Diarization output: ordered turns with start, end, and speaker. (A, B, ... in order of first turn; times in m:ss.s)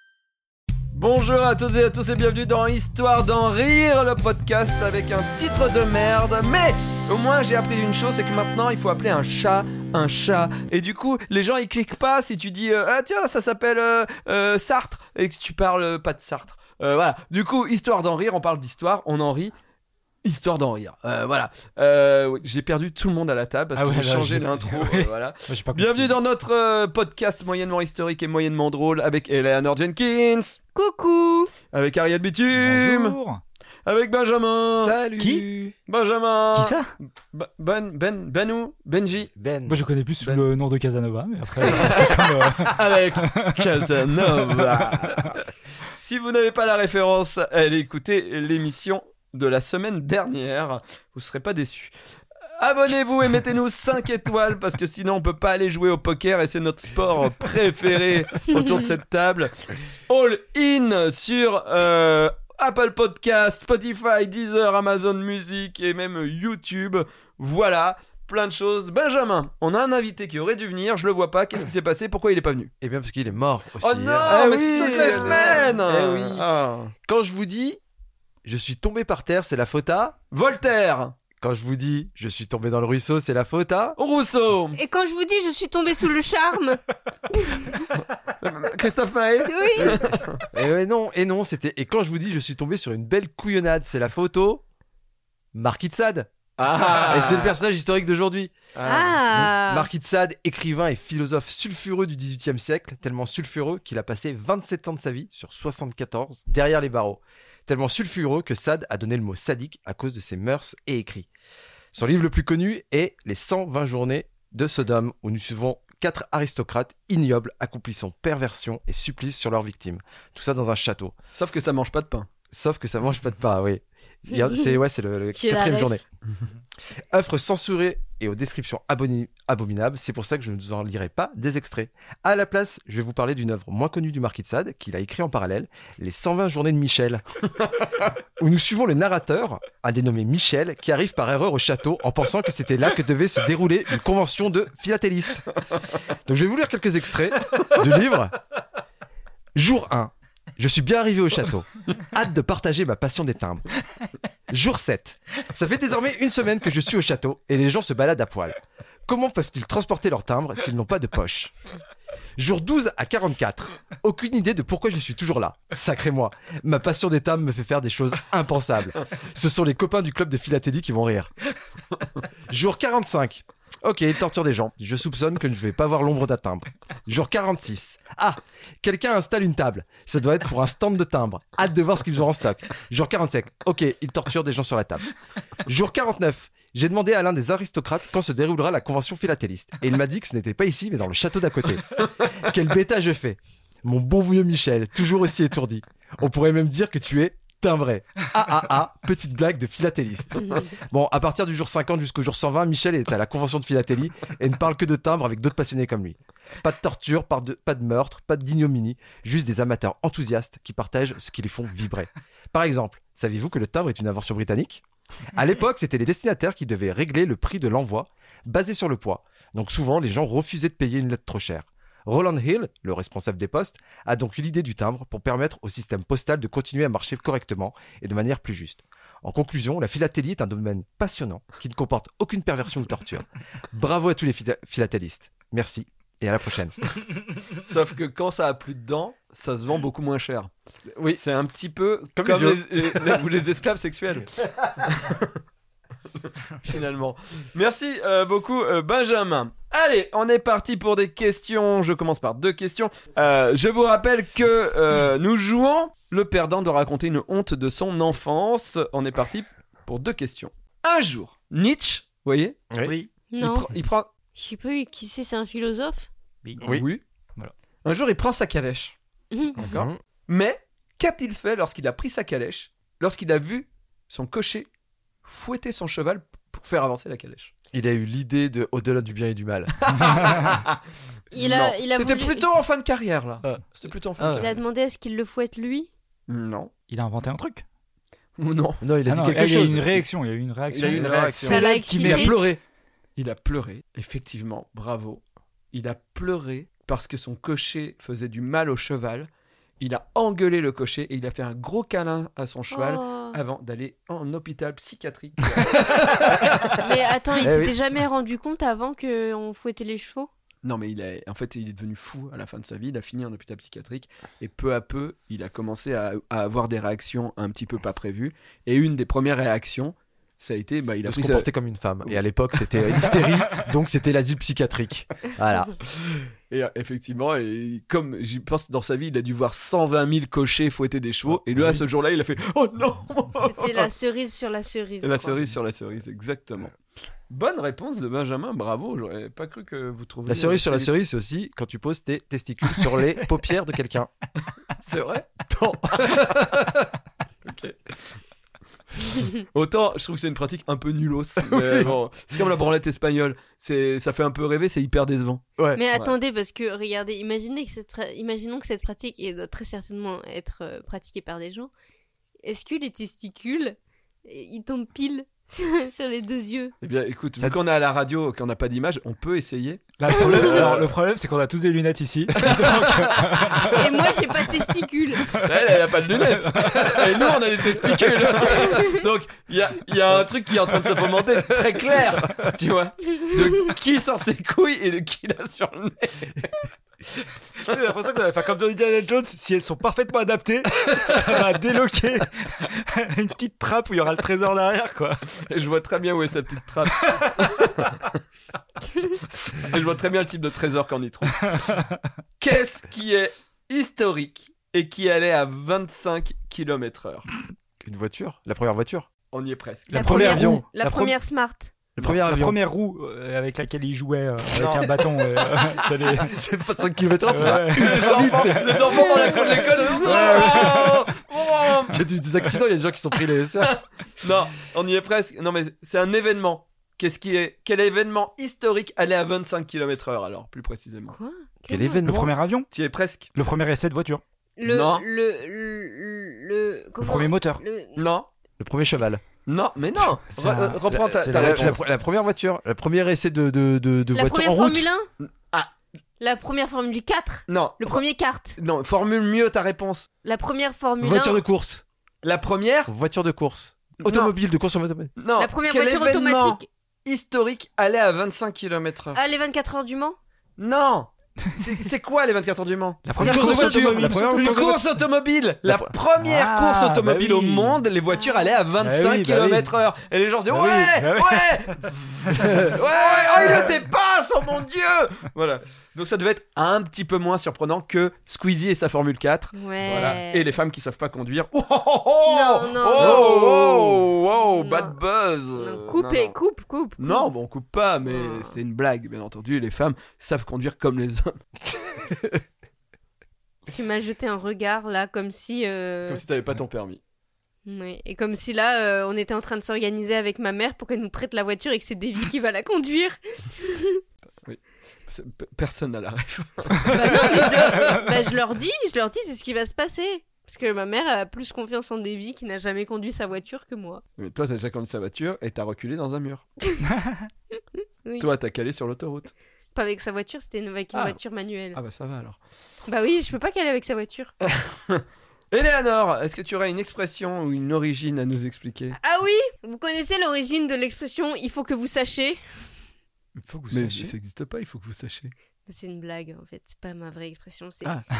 0:00.9-0:19.5 A
0:20.2-0:30.6 A
0:23.8-0:26.2 B
0:30.8-0:31.5 C
0:31.7-0:33.2 A
0:32.6-0:33.4 B
0:33.9-0:35.0 A
0:34.8-0:35.8 D
0:35.2-0:35.4 B
0:35.9-0:36.8 A
0:36.5-0:36.9 B
0:37.3-0:39.3 A
0:39.3-0:39.8 D
0:39.7-0:45.3 B
0:41.6-0:51.9 A
0:52.6-0:59.5 A
1:00.1-1:12.7 A
1:12.8-1:16.5 D
1:13.8-1:16.9 A
1:15.2-1:15.5 C
1:17.1-1:17.8 D
1:18.4-1:20.2 D
1:20.3-1:21.2 A
1:21.4-1:24.0 D
1:24.0-1:24.8 A
1:24.8-1:26.8 C
1:27.3-1:27.9 C
1:28.4-1:30.4 A
1:29.4-1:30.0 C
1:30.5-1:34.6 D
1:35.5-1:38.5 D
1:36.6-1:37.6 A
1:38.8-1:39.2 A
1:38.9-1:39.9 C
1:39.3-1:51.3 D
1:51.9-2:01.2 D
2:01.3-2:02.3 A
2:02.5-2:06.0 D
2:04.3-2:04.8 C
2:05.3-2:06.0 C
2:07.1-2:17.2 D
2:18.4-2:25.6 D
2:26.3-2:28.4 D
2:29.6-2:33.7 D
2:34.5-2:41.5 D
2:42.4-2:51.3 D
2:52.5-3:05.0 D
3:05.6-3:56.8 D
3:57.6-4:00.5 A
4:00.9-4:01.2 D
4:01.2-4:05.3 A
4:02.2-4:03.2 D
4:06.6-4:22.6 A
4:22.7-4:23.0 D
4:22.8-4:23.1 B
4:23.3-4:23.8 C
4:23.4-4:24.1 A
4:24.4-4:26.1 C
4:26.4-4:26.8 B
4:26.7-4:27.0 A
4:27.8-4:29.0 A
4:29.3-4:29.8 C
4:29.6-4:30.0 D
4:29.6-4:34.7 A
4:35.2-4:37.5 A
4:37.7-4:40.5 D
4:39.8-4:40.8 A
4:41.3-4:42.5 C
4:41.3-4:44.6 A
4:44.2-4:44.5 D
4:44.3-4:45.9 C
4:46.3-4:46.7 A
4:46.9-4:47.6 B
4:48.4-4:48.8 A
4:48.8-4:50.0 D
4:49.1-4:52.4 B
4:50.7-4:51.7 A
4:50.9-4:52.6 D
4:51.5-4:52.4 C
4:53.2-4:59.3 A
4:59.8-5:06.9 A
5:02.7-5:03.4 C
5:05.7-5:06.8 D
5:06.8-5:10.3 C
5:07.4-5:07.8 D
5:10.6-5:21.5 A
5:21.0-5:25.8 D
5:26.0-5:33.9 A
5:31.3-5:31.8 D
5:33.4-5:35.5 C
5:35.0-5:36.8 A
5:37.3-5:40.9 A
5:40.3-5:44.1 D
5:44.8-5:45.4 A
5:45.5-5:46.9 D
5:45.9-5:46.2 A
5:47.4-5:48.2 A
5:49.5-5:56.2 A
5:51.4-5:51.9 D
5:55.8-6:01.7 C
6:02.4-6:06.7 C
6:06.8-6:10.9 A
6:10.0-6:14.1 B
6:10.4-6:10.7 D
6:12.4-6:13.6 D
6:12.4-6:13.6 A
6:13.7-6:15.4 C
6:15.3-6:26.5 A
6:16.2-6:17.0 B
6:27.6-6:35.2 B
6:35.4-6:38.2 A
6:39.4-6:41.6 A
6:42.4-6:47.3 A
6:47.8-6:49.1 D
6:49.3-6:50.3 A
6:49.9-6:51.8 C
6:49.9-6:51.2 B
6:50.1-6:50.7 D
6:52.0-6:52.6 D
6:52.0-6:56.4 B
6:54.5-6:55.0 A
6:56.2-7:00.8 D
6:57.3-7:00.9 B
6:57.3-7:02.0 A
7:01.9-7:03.8 D
7:03.6-7:11.2 A
7:11.1-7:12.3 C
7:11.7-7:12.3 D
7:12.0-7:12.7 B
7:12.7-7:13.3 A
7:13.3-7:14.2 B
7:14.6-7:18.1 C
7:14.6-7:15.1 A
7:17.0-7:17.6 B
7:18.0-7:18.3 A
7:18.6-7:19.2 D
7:19.5-7:21.8 A
7:20.3-7:21.8 B
7:20.9-7:24.9 D
7:24.1-7:25.1 C
7:25.2-7:25.7 A
7:26.2-7:28.6 C
7:27.5-7:28.0 A
7:28.6-7:30.1 A
7:30.2-7:31.4 C
7:31.0-7:31.8 D
7:32.2-7:32.9 A
7:32.9-7:35.1 D
7:34.0-7:34.3 A
7:35.2-7:39.2 A
7:35.4-7:36.7 C
7:39.1-7:40.2 C
7:40.6-8:06.4 A
7:43.0-7:44.4 B
7:43.2-7:44.4 C
7:43.2-7:44.8 D
7:45.6-7:45.9 D
7:46.2-7:47.8 B
7:48.1-7:48.6 C
7:48.8-7:49.7 B
7:50.5-7:51.8 B
7:52.3-7:52.7 B
7:52.4-7:53.6 D
7:59.5-8:00.5 C
8:02.2-8:05.0 C
8:05.6-8:07.3 C
8:07.0-8:11.4 A
8:08.0-8:08.6 C
8:13.7-8:16.2 C
8:16.1-8:17.0 A
8:17.6-8:24.0 C
8:24.4-8:27.9 A
8:26.9-8:34.0 C
8:34.2-8:36.4 A
8:36.6-8:36.9 C
8:38.2-8:39.3 A
8:39.7-8:41.8 C
8:40.9-8:41.2 A
8:41.7-8:42.4 A
8:42.8-8:44.3 C
8:44.6-8:49.0 A
8:49.0-8:52.6 C
8:53.4-8:54.2 B
8:53.7-8:55.3 A
8:55.7-8:58.0 C